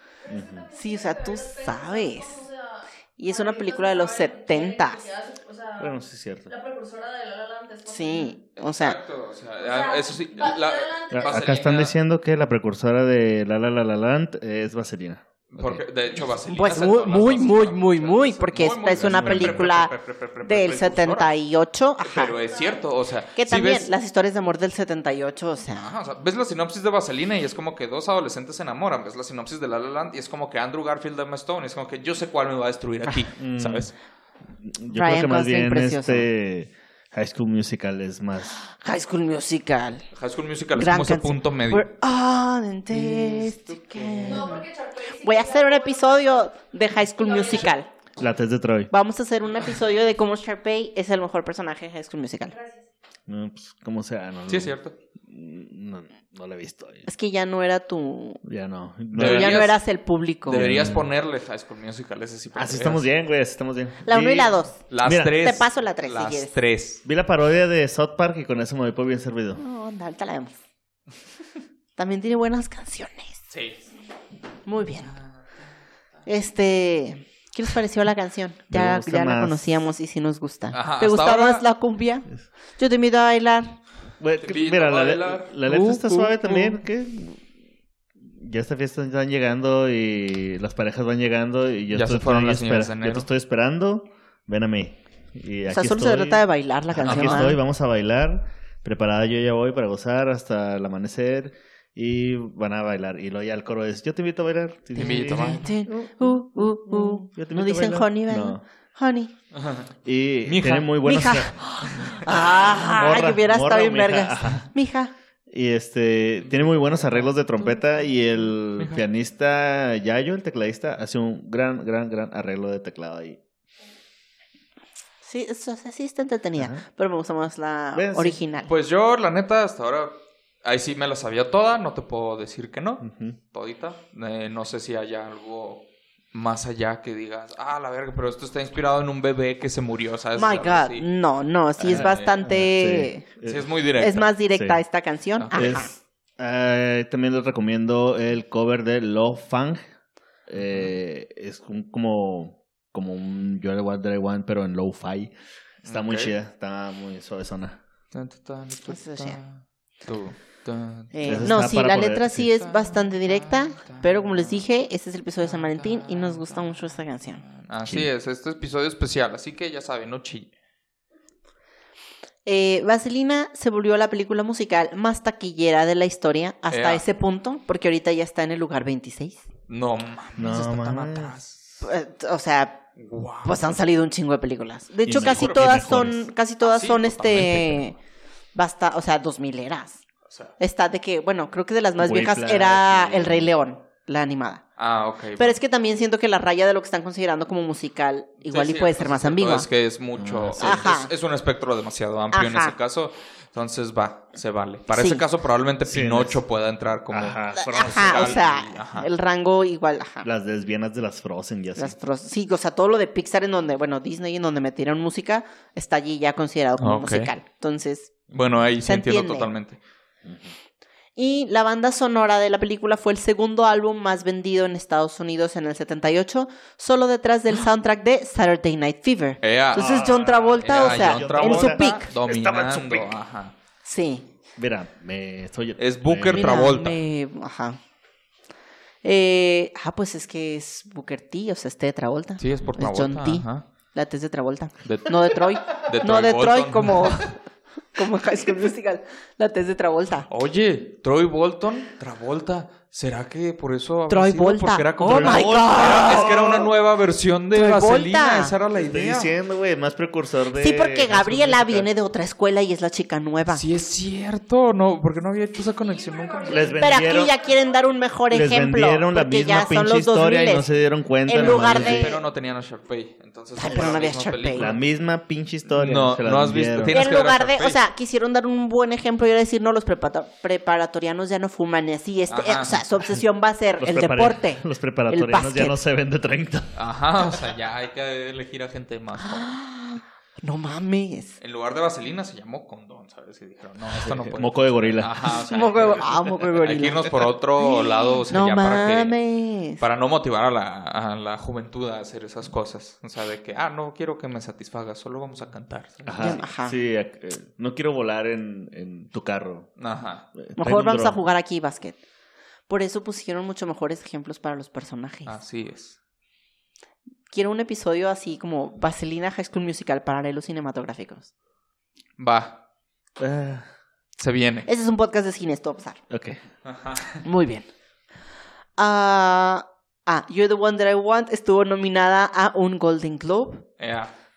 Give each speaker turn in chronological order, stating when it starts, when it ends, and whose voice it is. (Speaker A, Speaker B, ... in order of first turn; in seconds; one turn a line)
Speaker A: 0.2-8.4
Speaker B: 0.3-0.7
Speaker C: 0.8-2.4
Speaker C: 3.2-5.1
Speaker B: 5.8-6.5
Speaker C: 7.9-9.0
Speaker D: 8.6-11.9
Speaker A: 9.6-11.6
Speaker B: 11.1-15.8
Speaker D: 15.5-21.3
Speaker C: 16.5-19.9
Speaker B: 19.0-19.7
Speaker C: 20.4-22.4
Speaker D: 22.0-23.9
Speaker A: 22.4-22.9
Speaker C: 23.4-25.9
Speaker D: 25.8-34.0
Speaker B: 33.4-33.9
Speaker B: 34.6-38.6
Speaker C: 34.9-36.3
Speaker C: 38.6-40.0
Speaker D: 40.1-41.9
Speaker C: 40.8-47.9
Speaker D: 43.0-44.4
Speaker B: 43.2-43.5
Speaker A: 44.3-46.5
Speaker A: 47.2-47.7
Speaker B: 48.2-48.9
Speaker C: 48.9-52.5
Speaker A: 52.5-52.9
Speaker B: 53.3-54.8
Speaker D: 54.5-55.0
Speaker B: 55.3-57.1
Speaker C: 57.1-58.4
Speaker B: 58.4-59.7
Speaker C: 59.1-60.6
Speaker D: 59.1-59.8
Speaker D: 60.5-63.1
Speaker B: 60.5-61.1
Speaker B: 62.5-65.4
Speaker C: 64.1-64.8
Speaker D: 64.9-67.0
Speaker C: 65.3-66.5
Speaker B: 67.0-69.6
Speaker C: 69.6-70.6
Speaker C: 72.0-73.4
Speaker D: 73.5-73.8
Speaker C: 74.7-75.1
Speaker C: 76.3-83.8
Speaker B: 78.7-79.8
Speaker D: 80.7-81.7
Speaker B: 84.2-87.4
Speaker D: 84.4-86.4
Speaker C: 86.1-86.7
Speaker B: 88.3-108.6
Speaker D: 91.9-93.3
Speaker C: 95.7-97.6
Speaker D: 97.1-97.5
Speaker D: 105.0-105.7
Speaker C: 105.0-109.3
Speaker D: 109.5-109.9
Speaker B: 110.0-111.6
Speaker D: 110.4-110.9
Speaker C: 111.0-115.1
Speaker B: 112.4-114.7
Speaker B: 115.5-123.4
Speaker D: 116.5-117.9
Speaker D: 118.8-119.0
Speaker C: 125.2-128.7
Speaker B: 126.6-126.8
Speaker B: 127.9-128.4
Speaker D: 128.7-141.1
Speaker B: 133.0-133.4
Speaker C: 140.4-143.3
Speaker D: 141.8-142.3
Speaker B: 141.9-143.6
Speaker D: 143.4-144.3
Speaker C: 144.0-145.9
Speaker D: 145.4-145.7
Speaker B: 145.6-149.8
Speaker B: 150.5-155.3
Speaker D: 155.8-156.3
Speaker B: 155.8-157.8
Speaker D: 158.1-161.5
Speaker C: 158.9-159.4
Speaker C: 161.1-167.4
Speaker B: 161.2-162.5
Speaker D: 162.6-164.6
Speaker D: 165.4-166.8
Speaker D: 167.4-170.5
Speaker B: 167.8-168.1
Speaker C: 172.5-179.4
Speaker D: 176.7-177.0
Speaker D: 179.7-181.6
Speaker B: 180.4-181.4
Speaker C: 181.8-182.8
Speaker D: 183.0-183.6
Speaker C: 183.4-187.9
Speaker B: 185.1-186.3
Speaker D: 185.2-186.0
Speaker D: 186.6-187.9
Speaker C: 188.5-190.0
Speaker D: 190.3-190.5
Speaker C: 190.6-194.6
Speaker B: 192.0-193.5
Speaker D: 194.8-195.6
Speaker C: 195.4-199.7
Speaker D: 198.4-209.1
Speaker B: 200.2-200.9
Speaker C: 200.6-201.1
Speaker C: 202.3-202.8
Speaker C: 204.9-205.2
Speaker B: 205.9-206.4
Speaker B: 207.1-208.6
Speaker C: 207.6-210.3
Speaker B: 210.2-212.0
Speaker C: 211.8-218.2
Speaker D: 216.8-217.3
Speaker D: 218.3-219.8
Speaker C: 218.8-219.5
Speaker B: 220.2-220.5
Speaker C: 221.2-232.1
Speaker D: 229.4-230.1
Speaker B: 229.7-233.1
Speaker D: 230.6-233.6
Speaker C: 233.8-234.3
Speaker B: 234.6-236.8
Speaker D: 235.8-237.0
Speaker C: 236.3-237.8
Speaker C: 239.0-247.4
Speaker D: 242.4-243.6
Speaker D: 244.8-247.3
Speaker C: 247.9-250.3
Speaker D: 250.3-259.3
Speaker C: 254.1-256.3
Speaker B: 255.0-256.7
Speaker C: 257.5-258.5
Speaker B: 258.8-261.9
Speaker C: 260.6-263.6
Speaker D: 263.5-266.8
Speaker A: 265.8-267.8
Speaker B: 266.5-267.3
Speaker C: 266.8-270.7
Speaker B: 268.3-272.2
Speaker C: 271.3-272.2
Speaker D: 271.4-274.8
Speaker C: 273.6-274.7
Speaker B: 273.7-274.0
Speaker B: 274.5-277.0
Speaker D: 275.7-277.8
Speaker C: 276.9-285.8
Speaker D: 282.3-282.9
Speaker B: 283.8-286.7
Speaker D: 286.7-289.6
Speaker C: 289.2-291.4
Speaker D: 291.4-299.1
Speaker B: 293.9-295.2
Speaker C: 295.5-299.8
Speaker D: 299.8-306.4
Speaker B: 306.1-309.7
Speaker C: 306.2-306.8
Speaker D: 309.8-310.3
Speaker B: 310.4-311.2
Speaker C: 310.6-312.0
Speaker C: 312.7-315.3
Speaker D: 315.3-316.0
Speaker C: 317.3-321.3
Speaker D: 322.2-322.6
Speaker B: 323.2-323.7
Speaker D: 324.2-324.7
Speaker C: 324.7-326.0
Speaker B: 326.1-326.4
Speaker D: 326.7-327.2
Speaker C: 327.2-327.7
Speaker C: 328.8-333.7
Speaker D: 333.8-334.1